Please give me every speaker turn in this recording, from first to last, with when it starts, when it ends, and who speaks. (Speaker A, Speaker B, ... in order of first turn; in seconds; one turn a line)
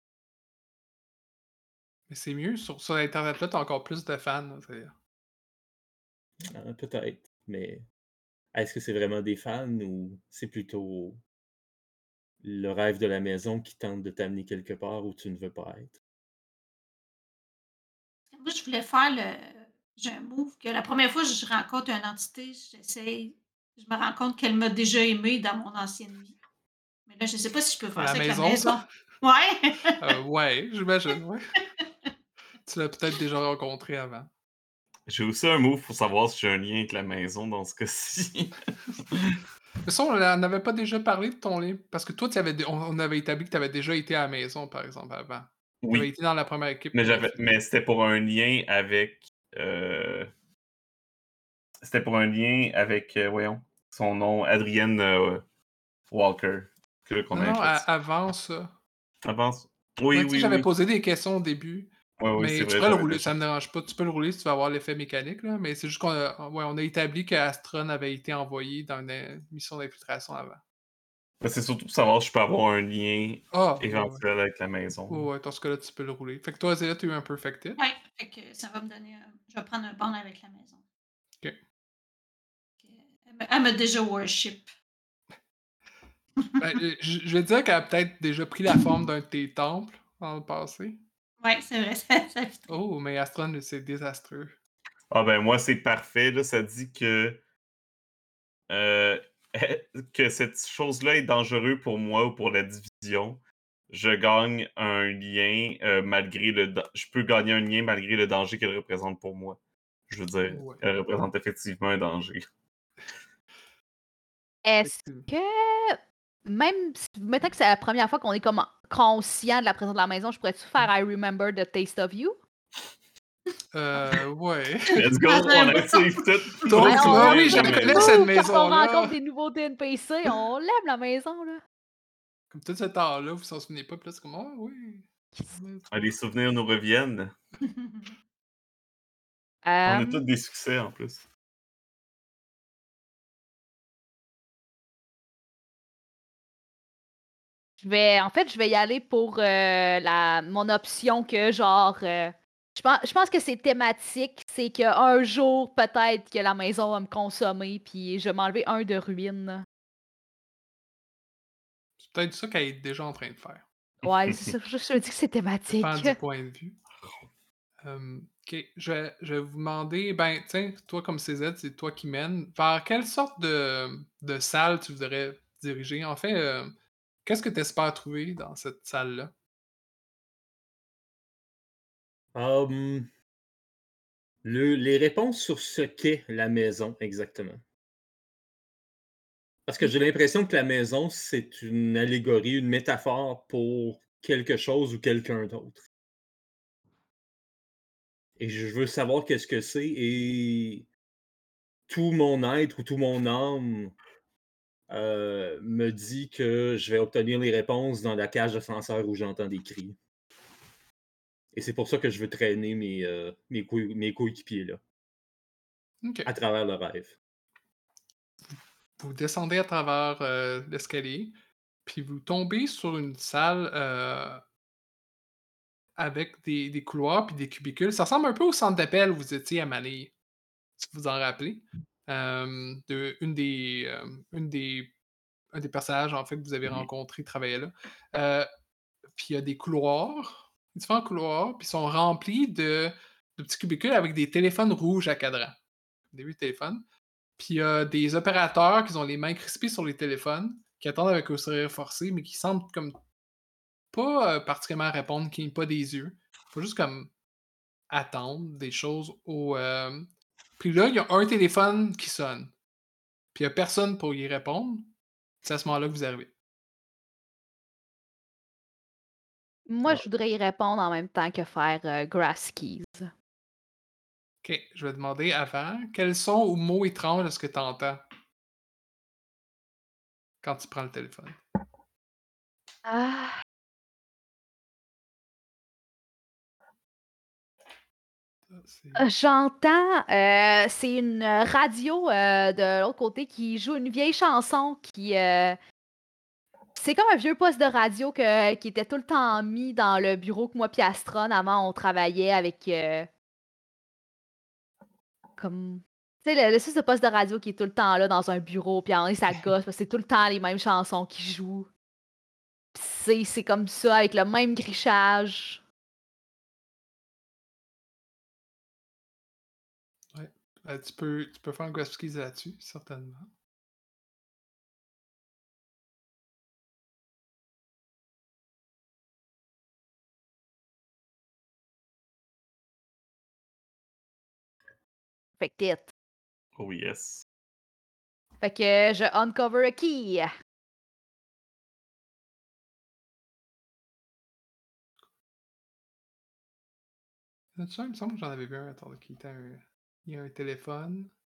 Speaker A: 2.1-5.0
Speaker B: 6.5-7.8
Speaker B: 8.5-11.2
Speaker B: 12.4-16.0
Speaker C: 18.3-26.4
Speaker C: 27.1-30.0
Speaker A: 27.9-28.8
Speaker A: 30.0-31.5
Speaker A: 32.6-34.3
Speaker D: 35.1-38.6
Speaker D: 39.1-39.4
Speaker A: 39.8-47.6
Speaker D: 45.8-46.1
Speaker D: 46.9-50.3
Speaker D: 51.8-55.4
Speaker D: 56.1-57.8
Speaker A: 57.3-58.7
Speaker D: 59.2-60.7
Speaker A: 60.1-70.6
Speaker D: 62.2-63.3
Speaker D: 71.4-75.3
Speaker A: 73.5-74.2
Speaker A: 75.1-77.8
Speaker C: 77.8-80.8
Speaker C: 82.8-84.7
Speaker A: 86.6-91.0
Speaker C: 91.4-92.7
Speaker A: 92.7-94.6
Speaker D: 95.1-97.4
Speaker D: 98.7-112.5
Speaker A: 110.5-110.8
Speaker E: 114.6-122.4
Speaker A: 114.8-115.3
Speaker A: 123.7-125.0
Speaker D: 125.0-128.2
Speaker C: 125.2-126.7
Speaker A: 126.6-129.2
Speaker E: 126.7-131.6
Speaker A: 132.5-136.1
Speaker D: 135.9-137.3
Speaker C: 137.6-138.1
Speaker E: 139.6-140.2
Speaker D: 139.8-141.2
Speaker E: 147.8-159.6
Speaker A: 162.0-163.6
Speaker E: 164.0-166.2
Speaker D: 164.1-164.5
Speaker A: 165.8-166.8
Speaker A: 167.8-179.3
Speaker B: 182.3-183.1
Speaker B: 184.4-187.6
Speaker B: 189.7-195.8
Speaker B: 198.4-200.9
Speaker B: 201.9-203.9
Speaker B: 204.9-210.0
Speaker B: 211.5-214.8
Speaker A: 216.0-216.3
Speaker B: 216.2-217.2
Speaker A: 218.5-224.4
Speaker A: 226.0-230.1
Speaker A: 230.8-234.9
Speaker A: 235.5-238.5
Speaker A: 239.1-245.6
Speaker A: 246.1-246.8
Speaker A: 247.4-253.0
Speaker A: 253.9-257.1
Speaker A: 257.9-262.5
Speaker A: 263.3-266.3
Speaker E: 269.7-273.1
Speaker A: 274.4-278.1
Speaker A: 280.4-281.4
Speaker E: 282.9-283.3
Speaker A: 288.5-289.1
Speaker E: 288.9-295.6
Speaker E: 296.8-303.1
Speaker E: 305.4-311.7
Speaker E: 312.7-315.6
Speaker A: 320.1-323.3
Speaker E: 335.4-335.9
Speaker D: 336.6-337.2
Speaker E: 338.4-340.3
Speaker A: 347.6-351.1